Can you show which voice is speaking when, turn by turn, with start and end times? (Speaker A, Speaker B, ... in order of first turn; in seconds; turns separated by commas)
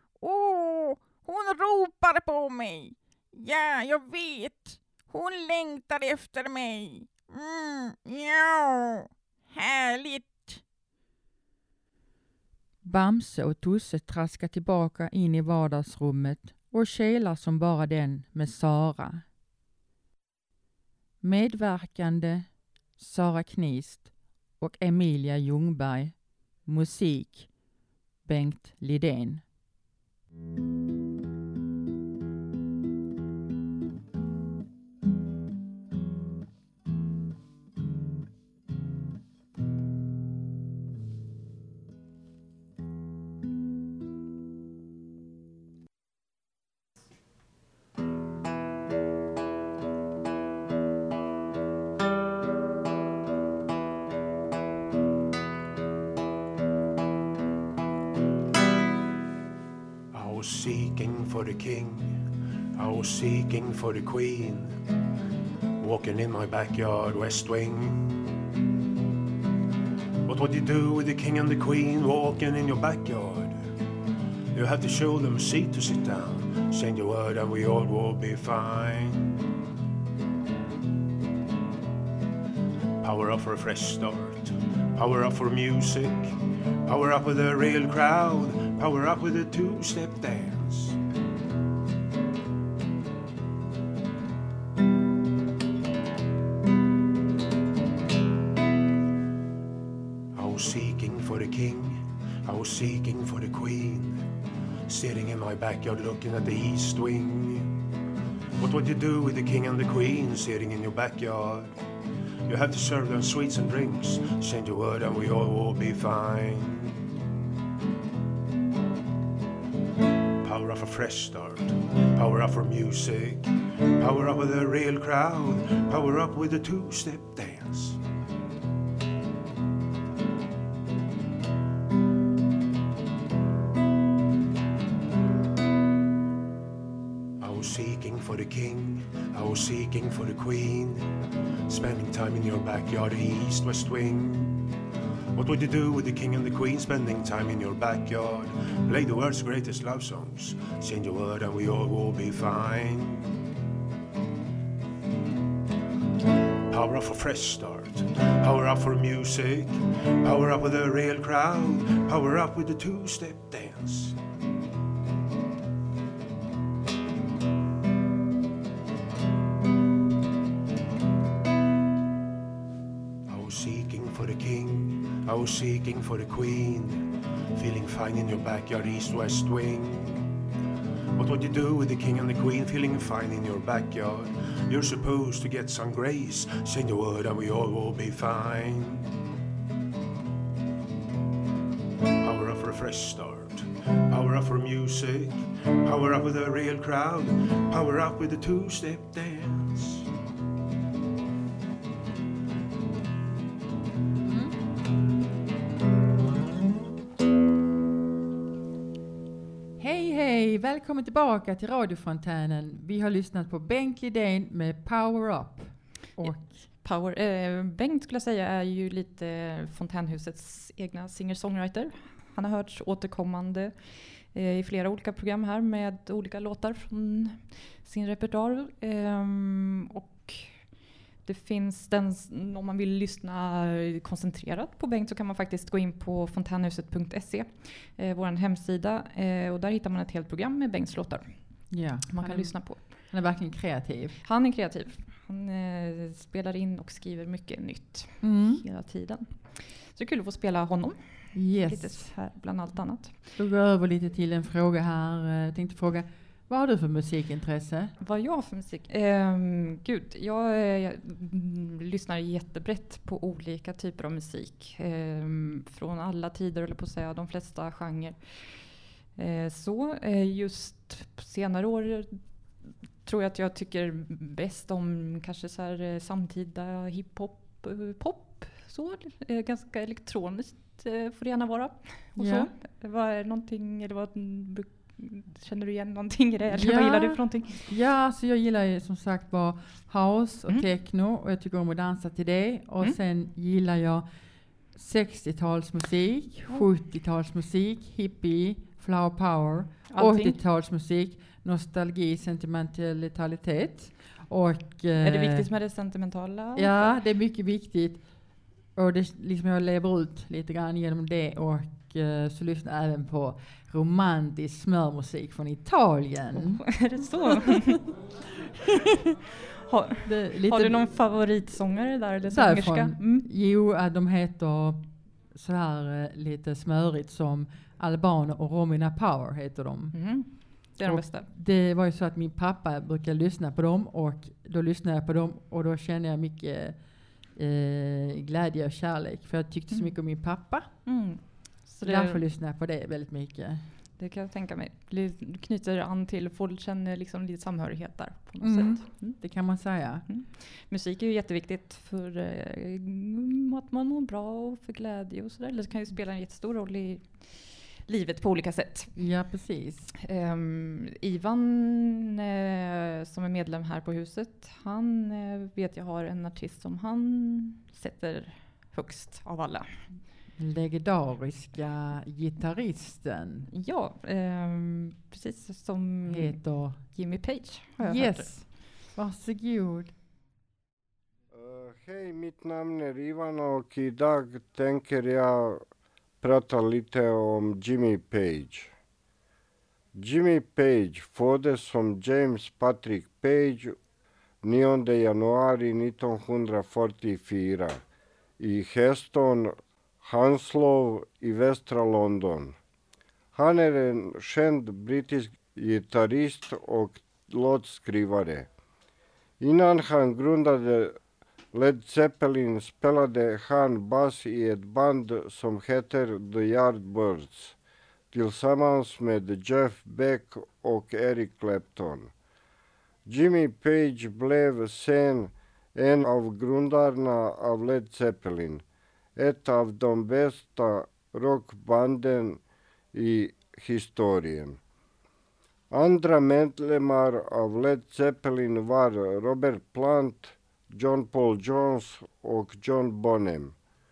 Speaker A: 0.2-10.6, Speaker B: 12.8-19.2, Speaker B: 21.2-27.5, Speaker B: 28.2-29.4, Speaker C: 60.1-62.1, Speaker C: 62.8-64.7, Speaker C: 65.8-68.2, Speaker C: 70.2-73.6, Speaker C: 74.5-79.4, Speaker C: 83.0-91.0, Speaker C: 100.3-104.2, Speaker C: 104.9-107.7, Speaker C: 108.6-111.7, Speaker C: 112.5-117.0, Speaker C: 120.4-128.0, Speaker C: 137.4-141.1, Speaker C: 141.7-144.6, Speaker C: 145.3-153.3, Speaker C: 156.7-164.2, Speaker C: 173.3-180.2, Speaker C: 181.2-189.1, Speaker C: 192.2-200.1, Speaker B: 204.2-204.6, Speaker B: 209.8-216.7, Speaker D: 216.2-230.7, Speaker D: 231.2-243.1, Speaker B: 241.7-244.2, Speaker D: 244.2-253.3, Speaker B: 248.2-248.6, Speaker B: 251.3-252.1, Speaker B: 253.3-257.9, Speaker D: 258.0-287.6, Speaker B: 282.2-282.5, Speaker B: 286.5-294.1, Speaker B: 294.7-305.5, Speaker D: 299.9-300.4, Speaker D: 305.0-307.0, Speaker B: 306.5-308.1, Speaker B: 308.7-316.7, Speaker D: 316.3-317.8, Speaker D: 319.7-323.3, Speaker B: 320.0-320.9, Speaker B: 322.2-330.0, Speaker D: 329.9-331.3, Speaker B: 330.8-336.8, Speaker B: 337.3-340.8, Speaker D: 339.7-339.9, Speaker D: 340.8-342.2, Speaker B: 341.8-343.6, Speaker D: 344.0-349.2, Speaker B: 348.4-350.0, Speaker D: 350.1-358.9, Speaker B: 358.9-359.9, Speaker D: 360.0-369.9, Speaker B: 370.3-373.5, Speaker D: 373.5-378.4, Speaker B: 376.1-376.8, Speaker B: 377.8-379.9, Speaker E: 381.3-385.6, Speaker E: 386.2-388.7, Speaker E: 389.9-393.7, Speaker E: 394.4-397.8, Speaker E: 398.4-402.6, Speaker E: 403.3-408.5, Speaker E: 409.4-410.9, Speaker E: 411.5-417.6, Speaker E: 418.1-422.1, Speaker E: 423.1-428.6, Speaker E: 429.2-432.4, Speaker E: 432.9-434.6, Speaker E: 435.7-443.5